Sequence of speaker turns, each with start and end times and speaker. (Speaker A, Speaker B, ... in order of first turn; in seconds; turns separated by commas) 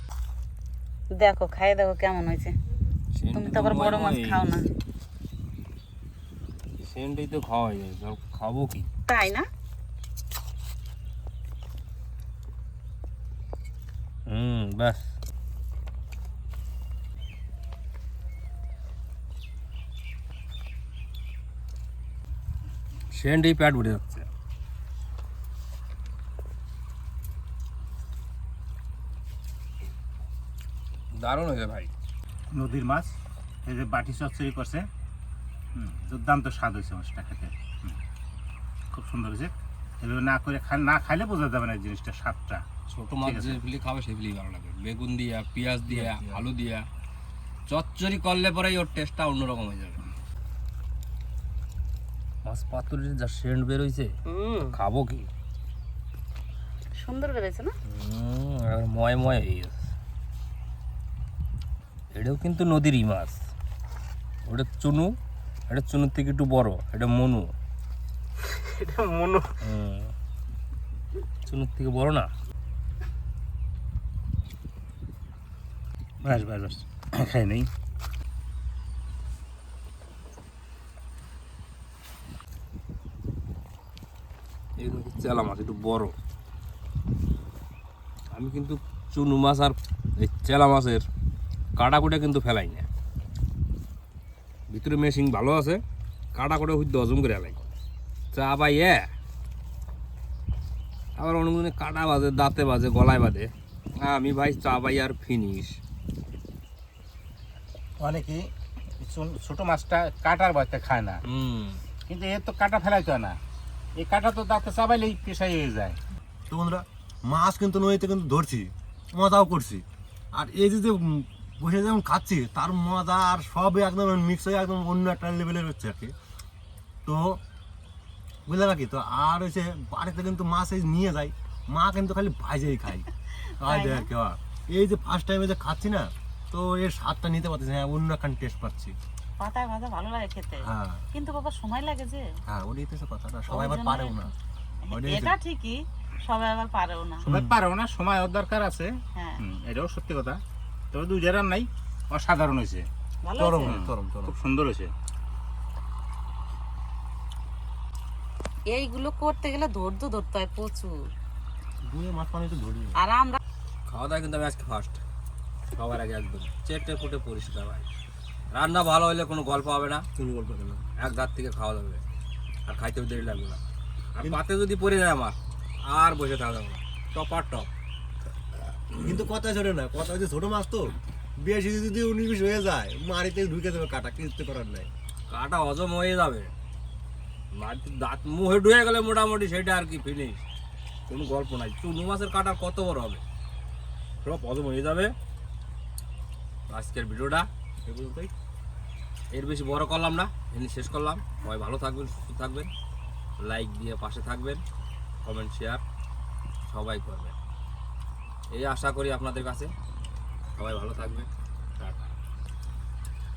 Speaker A: 1.1-2.5, Speaker B: 3.1-4.6, Speaker A: 3.3-4.7, Speaker B: 6.8-8.9, Speaker A: 9.1-9.4, Speaker B: 14.3-15.1, Speaker B: 23.1-24.3, Speaker B: 31.1-31.9, Speaker C: 32.5-33.1, Speaker C: 33.6-34.9, Speaker C: 35.7-38.0, Speaker C: 38.9-42.6, Speaker B: 42.9-46.8, Speaker C: 43.2-43.6, Speaker D: 45.9-46.4, Speaker B: 47.7-50.0, Speaker B: 52.4-55.3, Speaker A: 57.0-57.7, Speaker B: 57.9-59.9, Speaker B: 62.1-63.4, Speaker B: 64.5-65.1, Speaker B: 65.7-67.5, Speaker C: 69.0-69.3, Speaker B: 69.6-70.1, Speaker B: 71.4-72.3, Speaker C: 76.2-77.7, Speaker B: 84.8-86.1, Speaker B: 88.3-91.0, Speaker B: 91.8-92.9, Speaker B: 94.7-95.8, Speaker B: 96.3-97.6, Speaker B: 98.3-99.0, Speaker B: 101.2-103.5, Speaker B: 104.0-105.8, Speaker C: 108.0-111.2, Speaker B: 111.2-111.8, Speaker C: 112.1-113.4, Speaker C: 114.0-116.0, Speaker D: 116.5-126.1, Speaker D: 127.0-127.4, Speaker D: 128.4-133.1, Speaker D: 133.6-138.9, Speaker A: 133.6-134.1, Speaker A: 139.4-142.3, Speaker D: 140.6-141.1, Speaker D: 142.5-144.3, Speaker A: 143.5-144.3, Speaker A: 144.9-147.3, Speaker D: 144.9-145.3, Speaker C: 147.2-150.4, Speaker A: 149.2-149.4, Speaker C: 150.9-152.9, Speaker A: 153.2-153.7, Speaker D: 153.4-154.3, Speaker C: 153.7-154.9, Speaker A: 158.7-161.0, Speaker D: 161.8-163.0, Speaker A: 162.9-163.4, Speaker B: 163.9-165.0, Speaker B: 165.7-167.8, Speaker B: 168.5-170.0, Speaker D: 170.2-170.8, Speaker B: 171.0-172.0, Speaker B: 172.7-173.6, Speaker B: 174.1-177.7, Speaker B: 178.9-179.2, Speaker D: 179.0-184.9, Speaker B: 185.3-186.5, Speaker B: 187.5-190.4, Speaker B: 191.1-193.2, Speaker B: 194.2-195.1, Speaker B: 196.7-198.3, Speaker B: 199.3-202.7, Speaker B: 203.4-204.6, Speaker B: 205.2-205.8, Speaker B: 206.7-207.3, Speaker B: 208.5-209.7, Speaker B: 210.6-211.3, Speaker C: 211.8-212.1